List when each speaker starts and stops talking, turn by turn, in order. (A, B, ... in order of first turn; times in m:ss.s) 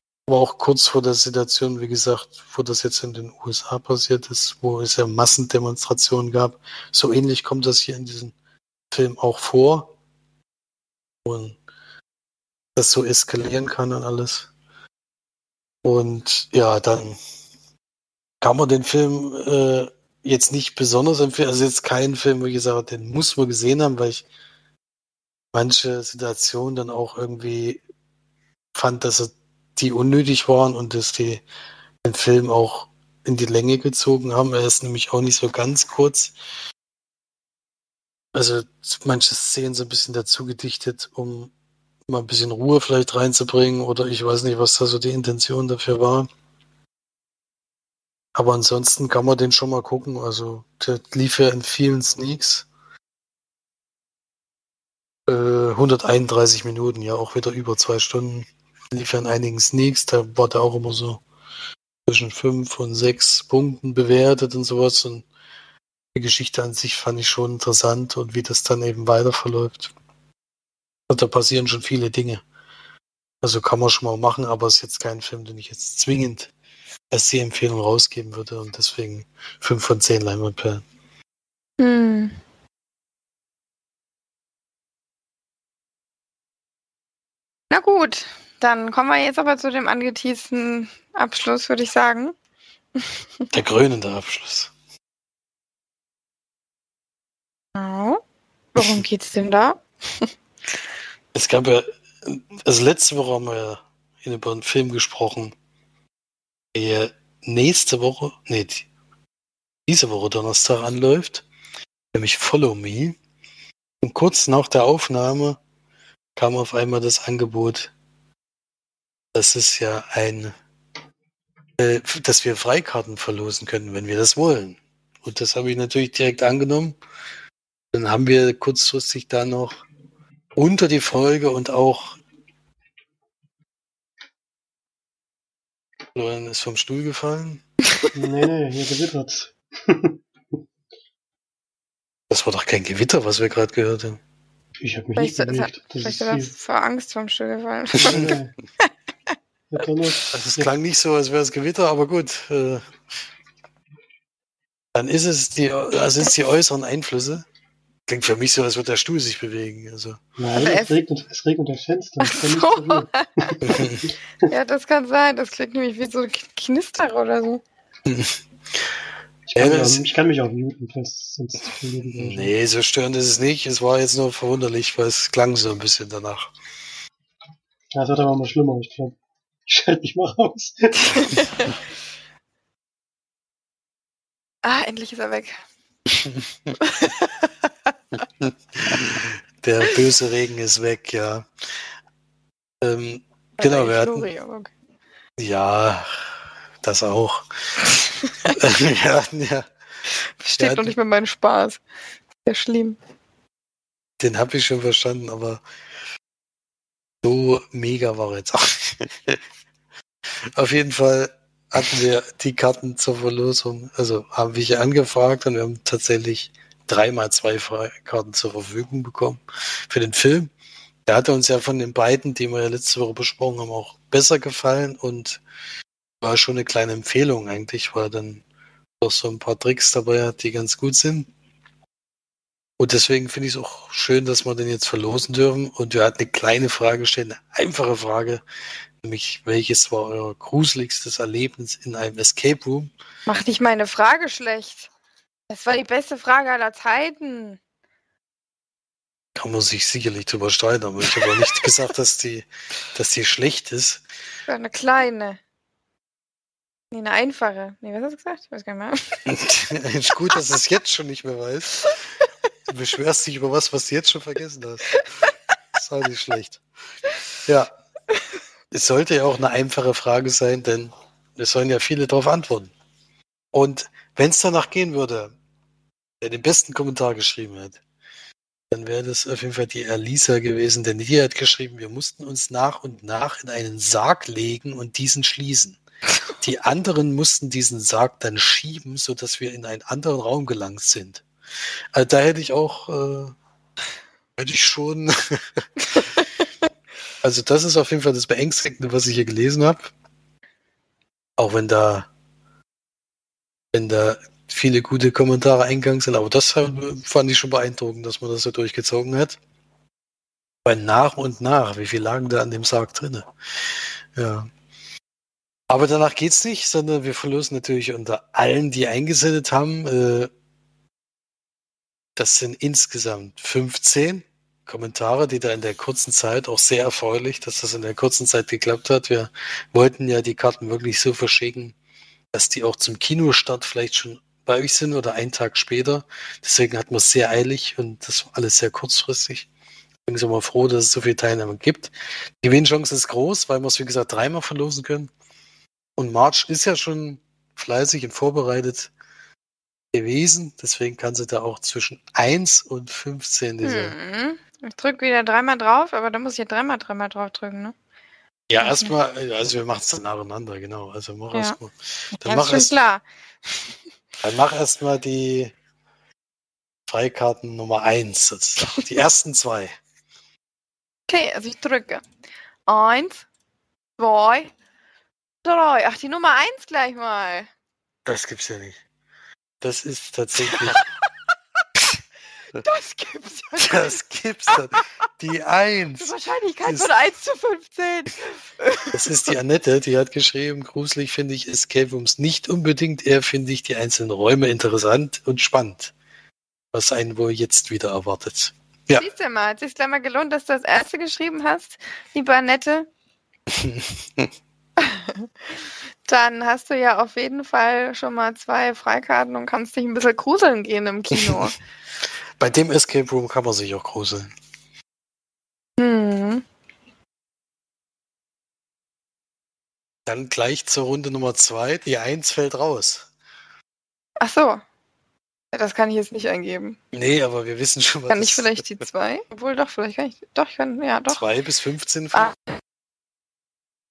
0:00.3-0:08.3 A
0:08.9-0:09.9 A
0:11.2-0:11.6 A
0:12.8-0:14.5 A
0:15.8-0:17.2 A
0:18.4-0:24.2 A
0:25.5-0:27.8 A
0:28.7-0:31.4 A
0:32.0-0:36.3 A
0:38.3-0:41.5 A
0:42.1-0:46.3 A
0:48.3-0:52.7 A
0:55.3-1:01.2 A
1:02.0-1:05.2 A
1:06.1-1:09.9 A
1:11.1-1:12.4 A
1:13.4-1:16.5 A
1:17.1-1:20.8 A
1:21.8-1:22.4 B
1:27.7-1:32.4 B
1:33.5-1:34.7 A
1:37.8-1:38.2 B
1:38.7-1:40.3 B
1:41.3-1:45.5 A
1:46.7-1:48.8 A
1:49.9-1:51.4 A
1:52.1-1:53.2 A
1:54.0-1:55.6 A
1:56.4-1:57.9 A
1:59.3-2:00.5 A
2:01.8-2:07.0 A
2:07.9-2:09.8 A
2:10.6-2:12.2 A
2:16.2-2:17.6 A
2:18.1-2:20.2 C
2:22.3-2:24.2 A
2:24.8-2:26.5 C
2:25.2-2:28.3 B
2:28.0-2:28.5 C
2:29.7-2:30.7 C
2:30.3-2:32.8 A
2:34.9-2:37.4 A
2:38.1-2:40.2 A
2:40.4-2:43.8 C
2:40.5-2:41.0 B
2:42.2-2:43.8 B
2:43.6-2:44.1 A
2:44.4-2:47.6 B
2:48.0-2:48.4 A
2:49.4-2:52.5 C
2:49.6-2:50.0 A
2:52.1-2:56.5 A
2:57.9-2:59.2 C
2:59.7-3:01.3 C
3:01.1-3:01.7 B
3:04.6-3:05.6 B
3:06.8-3:07.5 B
3:08.4-3:11.5 A
3:12.8-3:14.3 A
3:13.6-3:14.7 B
3:15.4-3:17.8 A
3:18.4-3:19.6 A
3:20.4-3:21.8 B
3:20.6-3:20.9 A
3:22.4-3:23.0 B
3:24.2-3:25.6 A
3:27.2-3:29.4 A
3:30.5-3:40.5 A
3:41.1-3:45.4 A
3:46.2-3:48.4 A
3:49.0-3:51.3 A
3:52.8-3:58.4 A
3:59.0-4:02.9 A
4:03.3-4:04.9 B
4:05.5-4:07.6 B
4:09.3-4:14.0 A
4:11.1-4:11.6 B
4:14.5-4:15.4 B
4:16.9-4:19.3 B
4:19.3-4:21.9 A
4:22.7-4:25.1 A
4:25.7-4:26.6 A
4:27.4-4:27.7 A
4:28.7-4:32.7 A
4:33.5-4:35.3 A
4:36.2-4:37.8 A
4:38.7-4:45.8 A
4:46.4-4:51.2 A
4:51.9-4:53.3 A
4:54.4-4:55.4 A
4:57.2-4:59.9 A
5:01.4-5:02.1 A
5:03.7-5:09.4 A
5:10.6-5:14.5 A
5:15.7-5:20.3 A
5:22.2-5:31.7 A
5:32.3-5:39.5 A
5:40.0-5:45.1 A
5:46.0-5:48.9 A
5:49.9-5:53.9 A
5:53.6-5:57.7 B
5:58.5-6:02.8 A
5:58.6-5:58.9 B
6:02.2-6:03.6 B
6:04.2-6:05.5 A
6:06.9-6:09.8 A
6:11.1-6:12.0 B
6:12.7-6:13.3 B
6:14.0-6:14.5 B
6:15.4-6:17.5 B
6:18.0-6:18.8 A
6:19.6-6:20.8 A
6:22.6-6:24.0 B
6:23.6-6:26.1 A
6:26.0-6:29.0 B
6:26.6-6:26.9 A
6:28.9-6:35.9 A
6:36.7-6:39.0 A
6:38.9-6:42.9 B
6:43.5-6:44.3 A
6:44.8-6:45.3 B
6:46.0-6:51.6 B
6:51.1-6:51.4 A
6:52.4-6:54.3 A
6:55.8-6:56.4 B
7:00.0-7:03.1 A
7:04.2-7:04.6 B
7:05.5-7:06.8 B
7:06.9-7:08.6 A
7:08.1-7:11.2 B
7:11.1-7:12.3 A